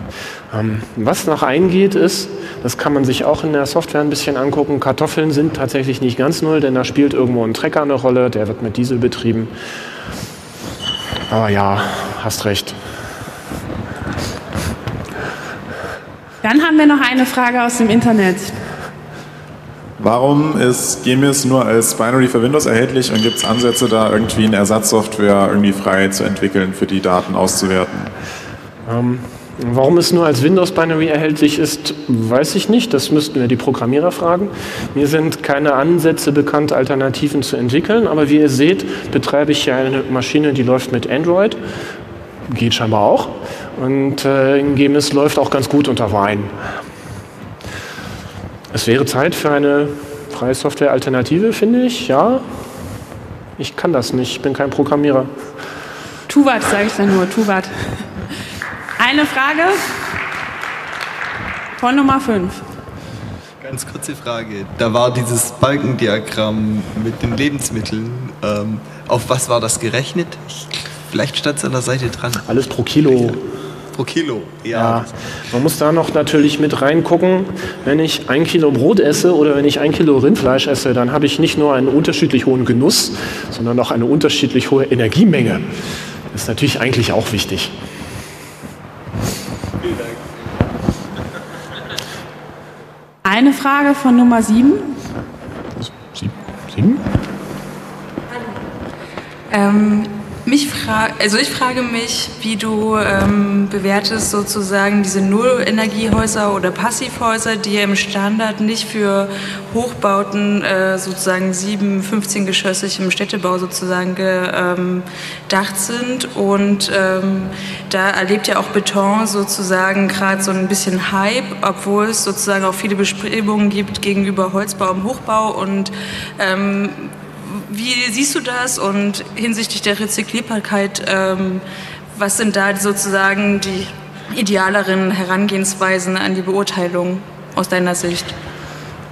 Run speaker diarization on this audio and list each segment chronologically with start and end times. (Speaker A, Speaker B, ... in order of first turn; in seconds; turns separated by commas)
Speaker A: 0.5-9.5, Speaker A: 11.3-12.8, Speaker B: 16.4-18.6, Speaker C: 20.0-28.1, Speaker A: 28.9-41.6, Speaker A: 42.5-46.5, Speaker A: 48.7-52.4, Speaker A: 53.6-55.3, Speaker B: 56.3-58.0, Speaker B: 59.0-59.9, Speaker B: 61.8-62.6, Speaker D: 63.6-72.5, Speaker A: 72.5-73.4, Speaker D: 73.9-75.1, Speaker A: 74.7-85.7, Speaker A: 86.3-87.7, Speaker B: 93.2-95.0, Speaker A: 95.8-97.0, Speaker E: 99.5-131.6, Speaker E: 132.1-138.3